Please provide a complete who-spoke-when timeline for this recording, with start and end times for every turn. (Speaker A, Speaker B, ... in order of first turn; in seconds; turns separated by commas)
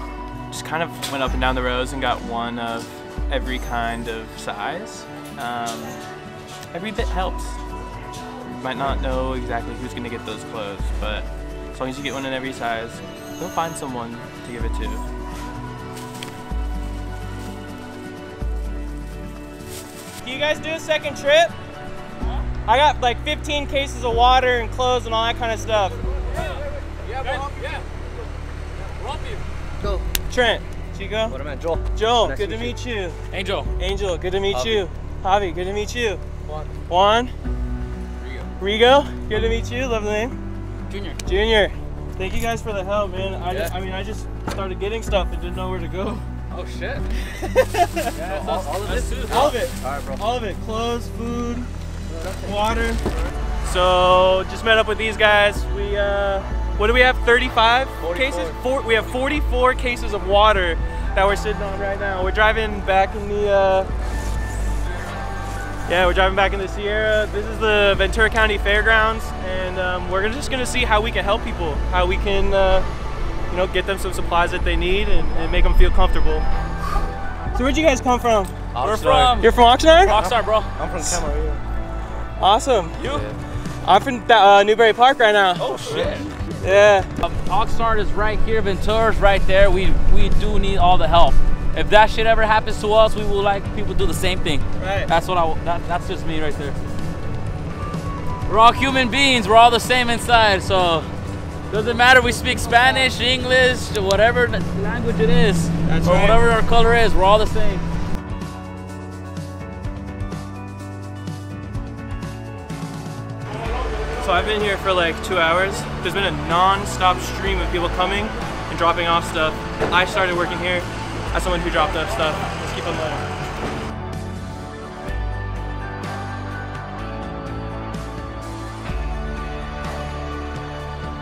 Speaker A: 0.5-6.0, Speaker A: 6.7-7.6, Speaker A: 8.5-15.0, Speaker A: 20.2-21.5, Speaker A: 22.6-26.0, Speaker B: 26.3-27.8, Speaker B: 29.0-29.4, Speaker C: 29.8-30.0, Speaker A: 30.3-31.4, Speaker C: 31.3-32.8, Speaker A: 31.9-33.2, Speaker B: 33.3-33.7, Speaker A: 33.8-36.2, Speaker C: 34.5-34.8, Speaker A: 36.9-37.3, Speaker B: 38.2-38.5, Speaker A: 38.6-40.4, Speaker B: 40.9-41.2, Speaker A: 41.2-46.3, Speaker B: 46.5-47.1, Speaker A: 47.2-48.1, Speaker B: 48.1-49.6, Speaker C: 48.1-50.2, Speaker A: 49.3-51.7, Speaker C: 52.1-52.6, Speaker A: 52.4-53.0, Speaker A: 53.6-63.9, Speaker C: 58.0-58.6, Speaker A: 65.8-72.8, Speaker A: 73.5-76.5, Speaker A: 77.5-78.5, Speaker C: 78.7-79.4, Speaker B: 78.8-80.7, Speaker A: 79.4-80.2, Speaker C: 80.1-81.6, Speaker A: 82.4-83.0, Speaker B: 83.0-83.3, Speaker C: 83.0-83.4, Speaker A: 83.8-85.7, Speaker B: 85.6-86.3, Speaker C: 85.7-86.2, Speaker A: 86.6-87.1, Speaker B: 87.2-96.8, Speaker A: 94.8-95.1, Speaker B: 98.5-101.1, Speaker B: 101.7-107.8, Speaker C: 102.8-103.1, Speaker A: 105.8-106.4, Speaker A: 114.2-123.3